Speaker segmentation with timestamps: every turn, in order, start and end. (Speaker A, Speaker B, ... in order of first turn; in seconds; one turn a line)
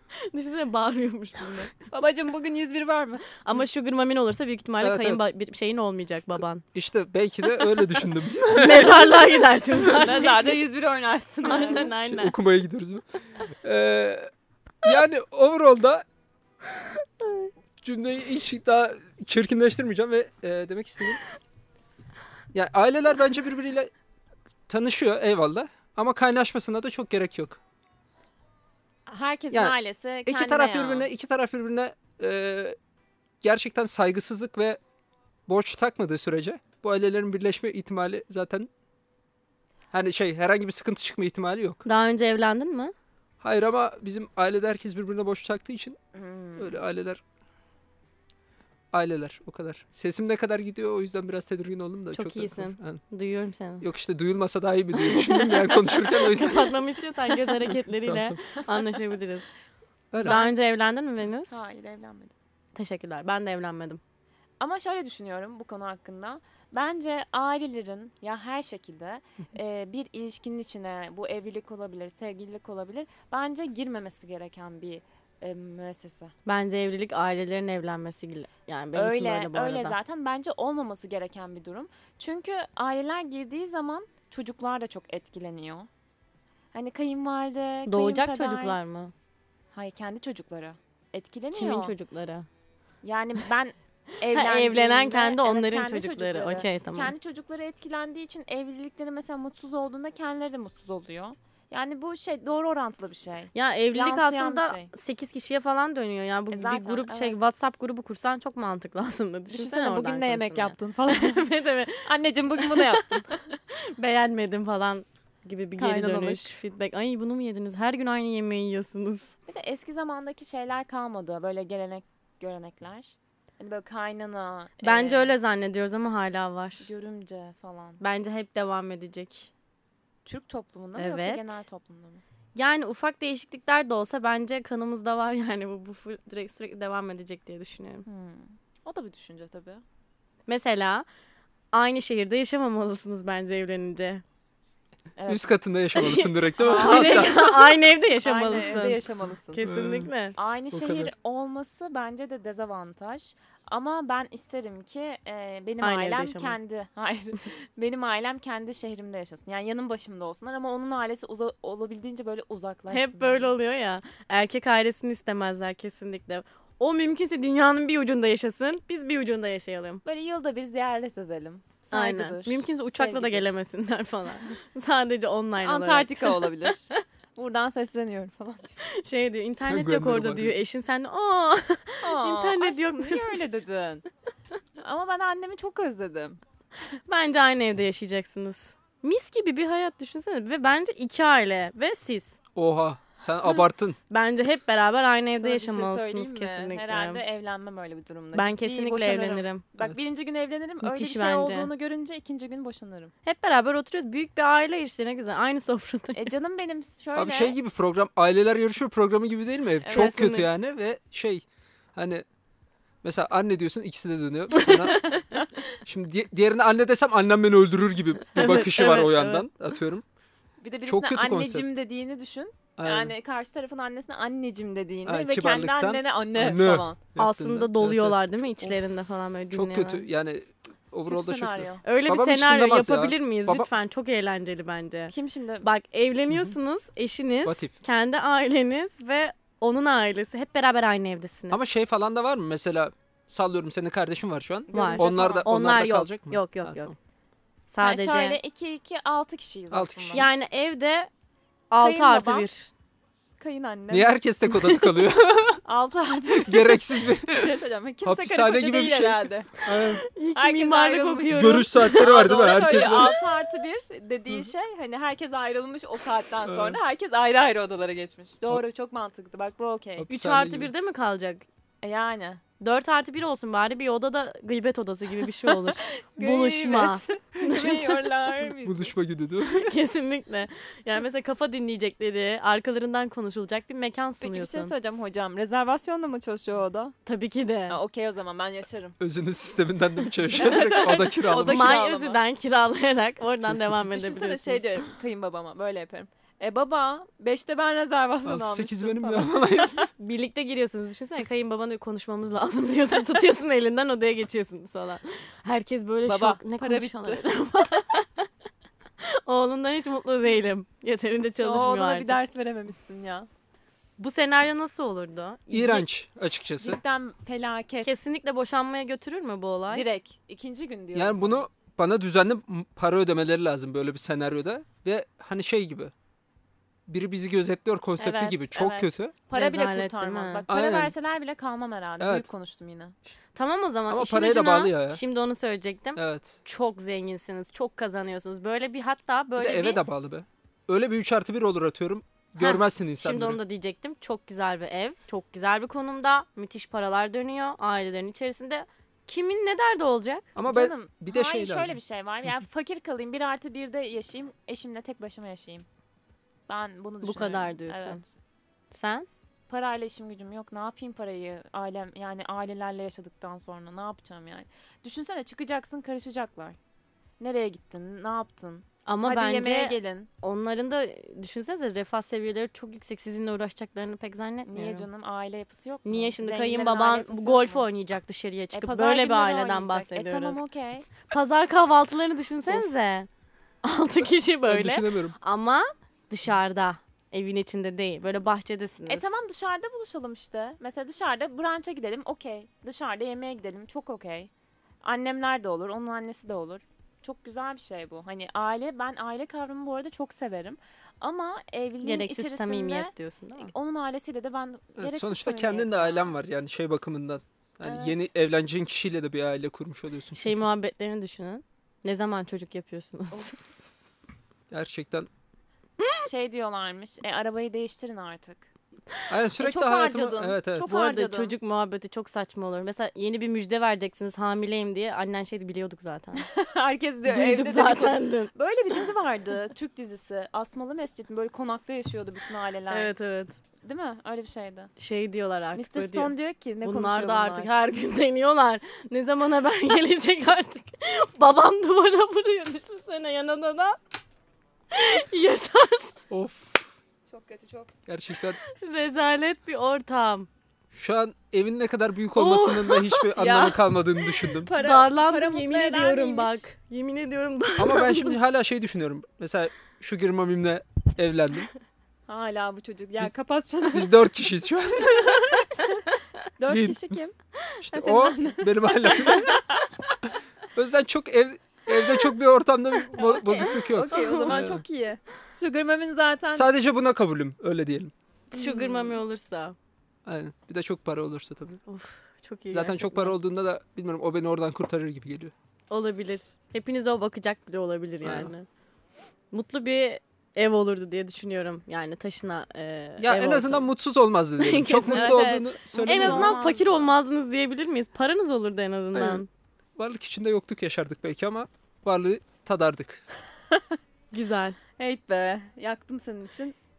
Speaker A: 0.2-1.7
Speaker B: 1.9-3.3
Speaker A: 3.4-6.6
Speaker C: 4.8-5.2
Speaker C: 6.7-9.3
Speaker A: 8.5-10.6
Speaker B: 9.8-11.9
Speaker A: 11.4-12.3
Speaker C: 11.9-13.0
Speaker C: 13.6-14.3
Speaker C: 14.8-16.0
Speaker A: 17.2-17.5
Speaker C: 17.8-21.2
Speaker C: 22.5-23.9
Speaker C: 24.7-27.6
Speaker B: 29.1-31.1
Speaker C: 29.5-32.8
Speaker C: 33.4-34.8
Speaker C: 35.5-38.7
Speaker C: 39.9-41.8
Speaker A: 41.8-42.9
Speaker C: 43.4-46.0
Speaker B: 46.1-46.8
Speaker C: 46.6-47.2
Speaker C: 48.9-53.0
Speaker A: 52.1-53.9
Speaker C: 53.8-56.8
Speaker A: 55.0-59.5
Speaker C: 57.6-58.4
Speaker C: 60.1-60.4
Speaker A: 60.2-61.6
Speaker B: 60.2-60.5
Speaker B: 61.5-62.3
Speaker A: 62.7-64.0
Speaker B: 64.6-76.3
Speaker A: 76.5-80.0
Speaker B: 78.9-85.9
Speaker B: 86.7-88.8
Speaker A: 87.9-89.1
Speaker B: 89.7-91.9
Speaker A: 91.5-92.5
Speaker B: 93.0-104.9
Speaker A: 94.3-97.1
Speaker A: 103.5-113.2
Speaker B: 106.5-107.4
Speaker B: 109.5-111.5
Speaker B: 112.0-113.4
Speaker A: 113.7-119.3
Speaker B: 115.8-116.5
Speaker B: 119.5-125.3
Speaker A: 124.8-126.9
Speaker B: 126.8-128.0
Speaker A: 128.0-129.5
Speaker B: 130.2-132.2
Speaker A: 130.9-131.6
Speaker A: 132.5-138.1
Speaker B: 138.0-139.8
Speaker A: 140.5-141.1
Speaker A: 141.7-144.2
Speaker B: 145.2-145.5
Speaker C: 145.3-147.5
Speaker A: 145.9-149.0
Speaker B: 146.6-147.5
Speaker B: 148.2-149.7
Speaker A: 149.5-150.3
Speaker C: 149.6-150.1
Speaker B: 150.3-163.5
Speaker C: 150.7-151.1
Speaker A: 155.8-156.6
Speaker A: 162.9-170.0
Speaker B: 170.0-173.5
Speaker A: 171.9-176.4
Speaker B: 175.6-178.8
Speaker A: 178.8-183.6
Speaker C: 179.7-180.6
Speaker B: 182.0-184.0
Speaker B: 184.8-186.4
Speaker A: 187.1-192.4
Speaker C: 192.6-194.0
Speaker A: 194.1-197.2
Speaker B: 195.3-203.1
Speaker A: 198.3-199.6
Speaker A: 200.8-201.7
Speaker A: 203.2-206.3
Speaker B: 206.1-207.5
Speaker C: 207.2-211.4
Speaker B: 209.8-210.2
Speaker A: 209.9-210.5
Speaker C: 211.9-212.2
Speaker C: 213.0-215.1
Speaker B: 214.7-215.5
Speaker C: 215.8-220.0
Speaker A: 218.3-219.5
Speaker B: 220.6-227.0
Speaker C: 220.9-221.6
Speaker C: 222.8-223.1
Speaker C: 225.1-228.2
Speaker A: 227.2-230.1
Speaker C: 229.5-233.7
Speaker B: 231.1-231.8
Speaker A: 231.8-241.7
Speaker B: 235.1-235.7
Speaker C: 237.4-237.8
Speaker C: 241.5-246.9
Speaker B: 244.7-245.5
Speaker A: 244.7-246.9
Speaker A: 247.7-248.4
Speaker B: 247.8-250.3
Speaker C: 249.7-250.3
Speaker A: 250.1-251.1
Speaker A: 251.7-252.7
Speaker B: 251.8-252.5
Speaker B: 253.4-254.1
Speaker C: 253.9-255.6
Speaker A: 254.5-255.0
Speaker B: 255.6-259.5
Speaker C: 256.4-257.5
Speaker C: 258.0-260.0
Speaker A: 259.6-262.1
Speaker B: 260.3-270.1
Speaker C: 261.3-263.2
Speaker C: 266.4-266.8
Speaker C: 270.0-270.7
Speaker A: 270.1-271.4
Speaker B: 271.8-272.4
Speaker A: 272.6-278.1
Speaker B: 275.4-278.9
Speaker C: 278.6-279.7
Speaker A: 279.5-284.7
Speaker B: 284.2-286.9
Speaker A: 287.1-287.8
Speaker B: 287.7-289.0
Speaker C: 289.0-291.8
Speaker B: 290.3-292.2
Speaker A: 291.4-294.6
Speaker B: 293.9-299.9
Speaker C: 298.2-299.8
Speaker A: 300.0-308.3
Speaker B: 306.1-307.3
Speaker A: 309.0-312.2
Speaker B: 311.4-313.3
Speaker A: 314.0-315.9
Speaker C: 315.5-316.8
Speaker B: 316.6-317.9
Speaker A: 317.8-319.9
Speaker B: 319.7-321.4
Speaker C: 320.9-325.9
Speaker C: 326.9-329.1
Speaker A: 328.0-328.4
Speaker B: 328.1-332.9
Speaker A: 329.3-330.4
Speaker C: 330.5-330.9
Speaker C: 332.0-332.3
Speaker A: 333.4-339.8
Speaker C: 333.9-335.0
Speaker C: 335.9-336.4
Speaker C: 339.4-343.4
Speaker A: 342.4-350.3
Speaker C: 350.4-351.8
Speaker B: 350.4-355.7
Speaker B: 356.5-358.1
Speaker A: 357.0-358.1
Speaker A: 358.7-359.1
Speaker B: 359.5-366.6
Speaker B: 367.2-370.1
Speaker A: 368.9-374.9
Speaker B: 374.4-377.6
Speaker A: 375.8-380.4
Speaker B: 378.5-380.9
Speaker A: 381.1-383.1
Speaker A: 383.6-389.2
Speaker C: 384.4-385.1
Speaker B: 388.9-394.3
Speaker B: 394.8-406.2
Speaker A: 401.8-403.5
Speaker C: 404.8-410.3
Speaker B: 407.6-408.1
Speaker A: 410.1-413.4
Speaker C: 414.5-415.1
Speaker A: 415.8-416.1
Speaker B: 416.0-418.5
Speaker C: 419.1-420.7
Speaker B: 419.4-421.3
Speaker A: 420.7-426.3
Speaker B: 426.1-432.9
Speaker A: 427.1-428.3
Speaker A: 432.7-433.4
Speaker B: 433.6-434.7
Speaker A: 434.8-436.1
Speaker B: 435.5-437.5
Speaker A: 436.6-443.8
Speaker A: 444.7-446.1
Speaker C: 446.1-446.7
Speaker B: 447.1-447.7
Speaker C: 447.9-448.4
Speaker A: 448.5-450.3
Speaker C: 450.7-454.5
Speaker A: 452.1-453.0
Speaker B: 453.1-456.5
Speaker A: 454.5-458.2
Speaker C: 457.6-461.5
Speaker B: 462.1-464.0
Speaker C: 463.7-465.5
Speaker B: 465.1-465.8
Speaker B: 466.4-467.1
Speaker C: 466.5-466.9
Speaker C: 467.6-469.4
Speaker B: 467.7-469.6
Speaker C: 470.5-474.6
Speaker B: 473.0-476.5
Speaker A: 473.9-474.4
Speaker C: 476.3-477.9
Speaker A: 478.3-479.6
Speaker B: 478.4-478.9
Speaker C: 480.1-481.6
Speaker A: 481.7-483.2
Speaker C: 482.5-485.3
Speaker A: 485.7-488.5
Speaker C: 488.0-488.3
Speaker A: 489.3-493.7
Speaker C: 493.0-496.4
Speaker A: 494.4-499.3
Speaker B: 494.9-496.9
Speaker C: 498.9-499.2
Speaker C: 499.8-503.0
Speaker B: 503.5-503.8
Speaker A: 504.1-504.6
Speaker B: 504.8-506.6